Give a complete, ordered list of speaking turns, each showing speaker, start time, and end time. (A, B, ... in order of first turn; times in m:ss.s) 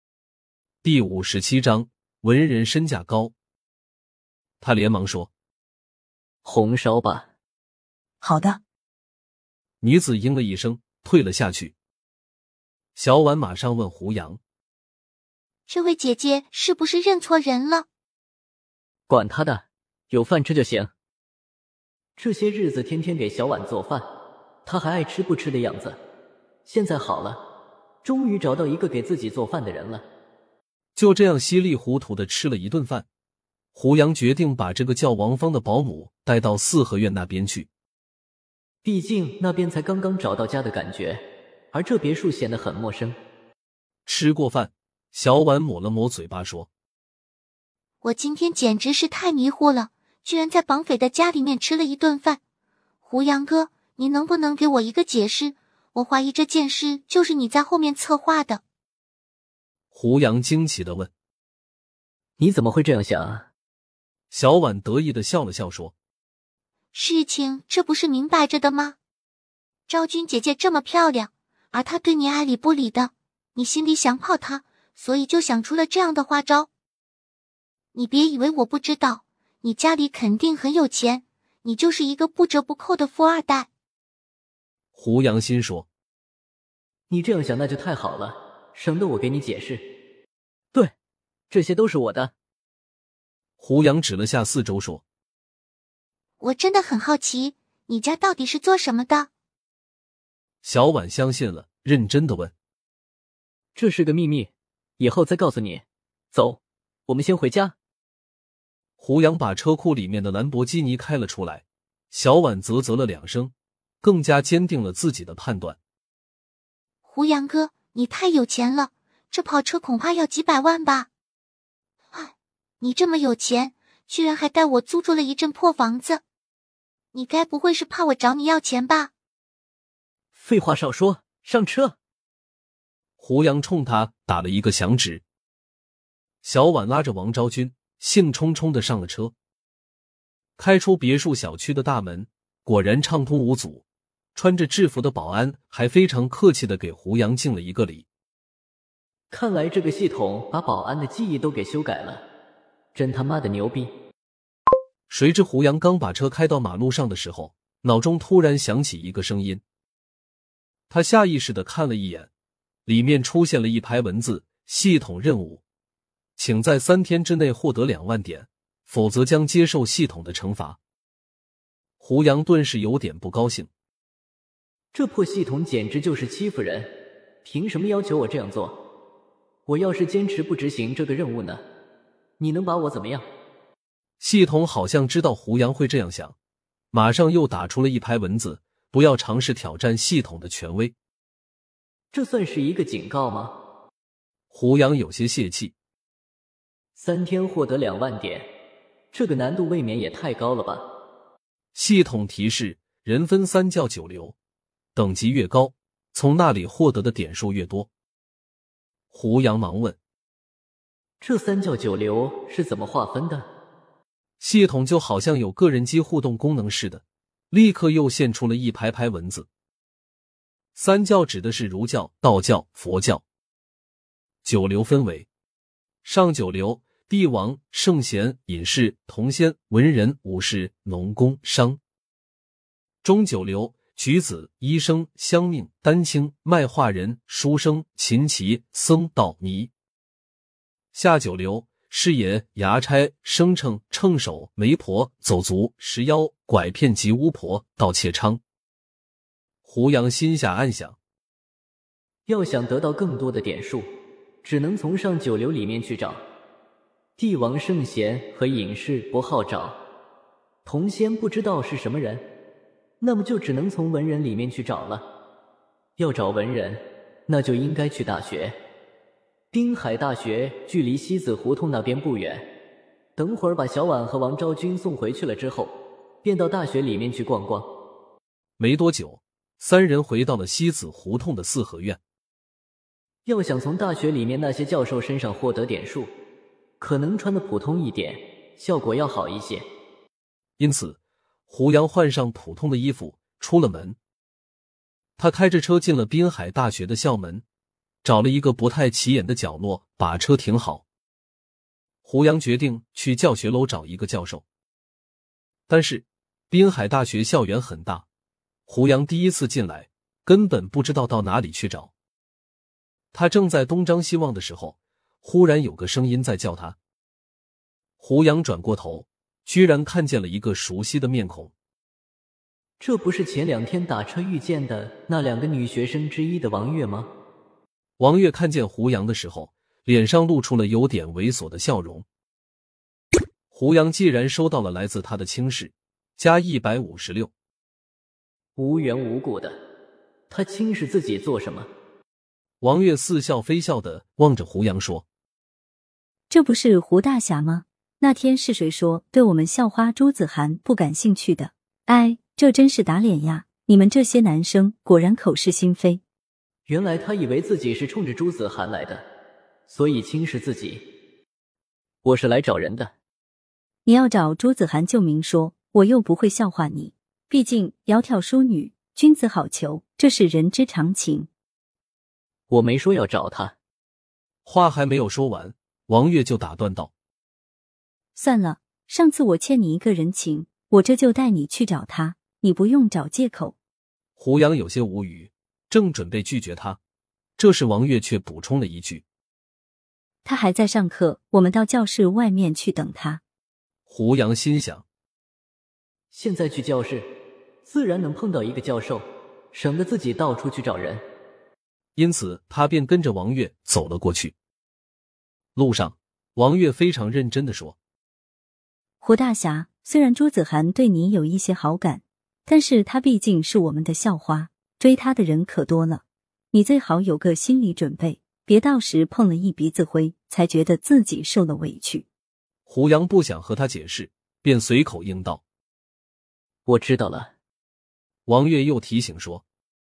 0:00.8-0:03.3 A
0:04.6-0:05.3 A
0:06.4-0:07.3 B
0:08.2-0:08.6 C
0:09.8-0:11.7 A
0:13.0-0:14.4 A
0:15.7-0:17.8 D
0:19.1-0:20.9 B
0:22.2-0:24.1 B
0:24.6-0:26.0 B
0:26.6-0:27.4 B
0:28.0-0:30.0 B
0:31.0-0:33.0 A
0:33.7-0:37.7 A
0:38.8-0:43.2 B
0:44.0-0:46.7 A
0:48.0-0:52.4 D
0:53.0-0:58.6 D
0:59.9-1:01.1 A
1:02.4-1:03.5 B
1:04.3-1:05.9 A
1:06.9-1:09.0 D
1:09.9-1:16.7 D
1:17.9-1:23.7 D
1:24.9-1:25.9 A
1:27.1-1:29.9 B
1:31.5-1:32.3 B
1:33.6-1:35.0 A
1:36.4-1:39.3 D
1:40.6-1:42.5 A
1:43.8-1:47.7 B
1:49.0-1:55.8 A
1:57.0-2:01.1 D
2:02.1-2:06.2 D
2:07.1-2:09.1 D
2:10.3-2:11.9 B
2:13.2-2:15.2 A
2:16.4-2:19.3 A
2:20.6-2:23.8 A
2:24.3-2:28.0 A
2:29.3-2:32.2 B
2:32.9-2:33.9 B
2:35.1-2:39.6 A
2:40.9-2:42.3 A
2:42.8-2:45.6 A
2:46.4-2:50.8 A
2:52.0-2:53.7 A
2:54.9-2:56.9 B
2:57.4-2:58.8 B
2:59.6-3:01.6 B
3:02.4-3:03.2 B
3:04.2-3:06.3 A
3:06.9-3:10.9 A
3:12.1-3:13.5 B
3:14.5-3:15.7 A
3:17.0-3:18.5 B
3:19.1-3:20.9 B
3:21.7-3:24.3 A
3:24.9-3:27.9 A
3:29.1-3:30.0 A
3:31.2-3:33.4 B
3:34.4-3:39.5 A
3:40.7-3:43.2 A
3:44.4-3:45.3 A
3:46.0-3:51.8 A
3:53.0-3:59.7 A
4:00.9-4:08.4 A
4:09.6-4:11.0 A
4:12.3-4:13.9 B
4:14.4-4:16.2 B
4:17.2-4:19.8 B
4:20.6-4:22.3 B
4:23.0-4:25.0 B
4:26.0-4:28.6 B
4:29.5-4:32.5 B
4:33.2-4:37.7 B
4:38.6-4:42.0 A
4:43.2-4:46.1 B
4:46.8-4:49.6 B
4:50.6-4:54.0 A
4:55.2-4:57.4 A
4:58.0-5:00.8 A
5:02.0-5:04.4 A
5:05.7-5:08.0 A
5:08.7-5:11.9 A
5:13.1-5:16.8 A
5:18.0-5:21.5 A
5:22.8-5:27.1 B
5:28.0-5:32.0 A
5:33.5-5:37.3 A
5:38.6-5:39.6 B
5:40.3-5:41.7 B
5:42.6-5:45.0 A
5:46.3-5:56.0 C
5:56.7-5:59.0 B
5:59.7-6:00.9 B
6:02.0-6:02.9 B
6:03.8-6:11.3 C
6:12.5-6:13.5 B
6:14.4-6:16.9 A
6:18.2-6:23.5 C
6:24.2-6:26.8 A
6:27.4-6:29.0 A
6:30.2-6:33.2 C
6:33.9-6:34.8 A
6:36.1-6:37.1 B
6:37.6-6:41.0 B
6:42.0-6:44.3 A
6:45.5-6:47.8 A
6:49.0-7:02.0 C
7:02.7-7:05.4 A
7:06.6-7:07.3 B
7:08.2-7:09.4 A